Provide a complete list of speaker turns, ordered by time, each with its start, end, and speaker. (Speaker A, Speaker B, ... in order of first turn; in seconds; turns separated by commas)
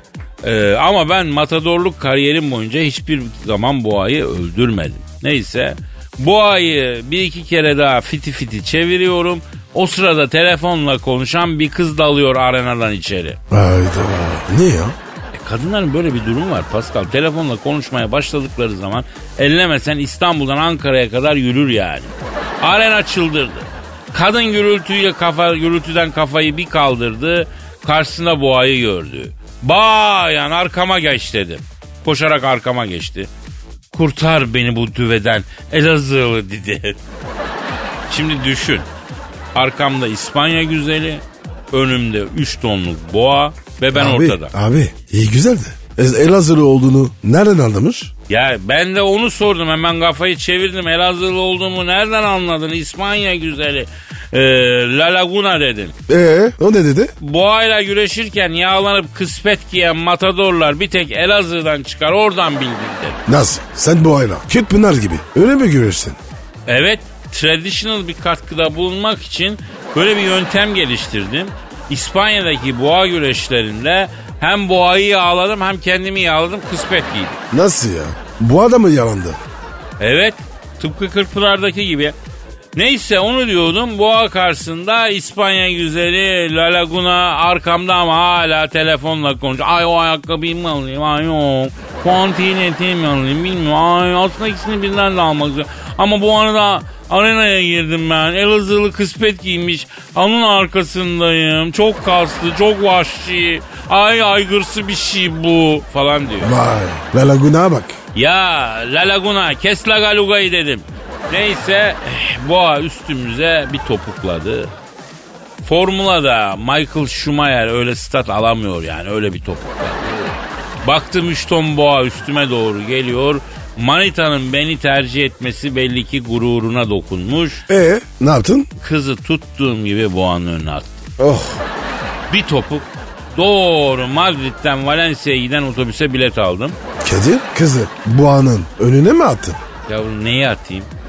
Speaker A: 0.4-13.4, Speaker B: 13.5-15.0, Speaker A: 15.3-33.3, Speaker A: 33.9-37.0, Speaker A: 38.1-38.9, Speaker A: 39.5-44.5, Speaker B: 43.9-48.1, Speaker A: 48.3-56.0, Speaker B: 56.1-57.1, Speaker A: 57.2-63.2, Speaker B: 63.3-66.2, Speaker A: 66.7-77.4, Speaker B: 77.5-79.4, Speaker A: 80.0-82.2, Speaker A: 82.8-106.5, Speaker B: 106.4-108.0, Speaker A: 108.1-114.7, Speaker A: 115.6-127.7, Speaker B: 127.7-128.7, Speaker A: 128.8-131.0, Speaker B: 131.2-131.6, Speaker A: 132.3-136.8, Speaker B: 137.0-139.6, Speaker A: 139.9-140.9